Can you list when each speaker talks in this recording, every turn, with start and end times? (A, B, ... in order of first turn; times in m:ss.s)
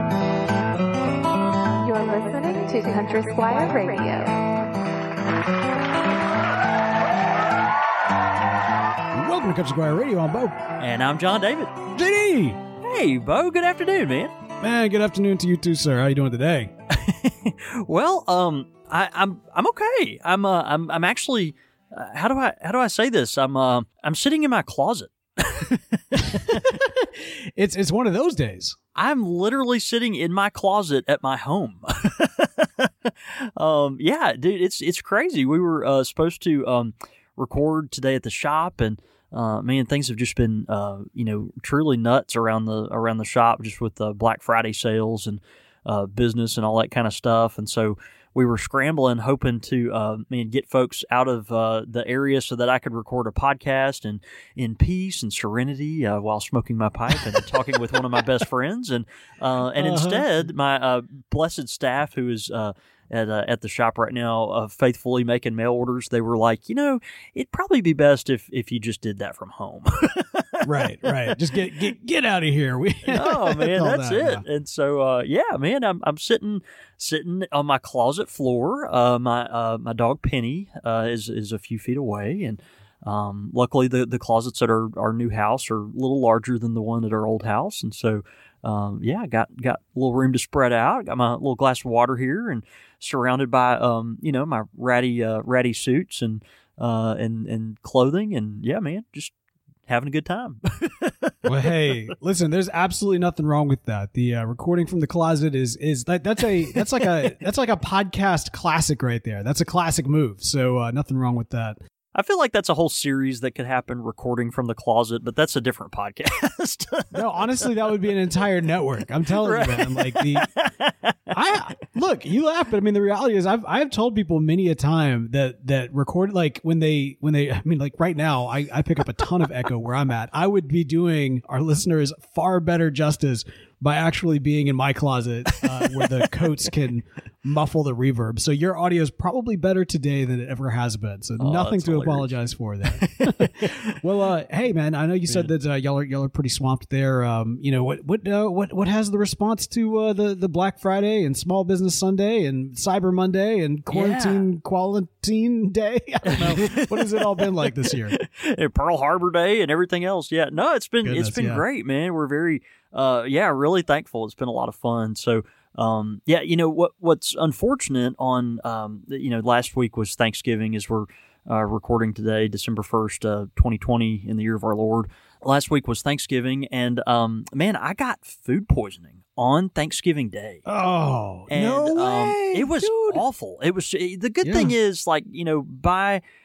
0:01.8-0:04.5 A
0:09.1-0:10.6 B
0:10.8-0:11.8 C
0:11.9-0:12.6 B
0:12.8-0:14.3 C
0:14.6-0:16.7 B
0:16.9-0:26.8 C
0:26.1-0:28.8 B
0:28.9-1:11.4 C
0:59.8-1:00.2 B
1:10.6-1:14.4 B
1:13.1-1:39.3 C
1:39.9-1:41.5 C
1:41.4-1:51.8 B
1:52.1-1:57.9 C
1:57.1-2:00.5 B
1:59.4-2:01.4 C
2:01.3-2:38.2 B
2:21.4-2:22.3 C
2:22.9-2:24.0 C
2:33.9-2:34.5 C
2:36.2-3:00.6 C
2:41.0-2:41.6 B
3:00.6-3:03.2 B
3:01.5-3:06.2 C
3:04.4-3:04.7 B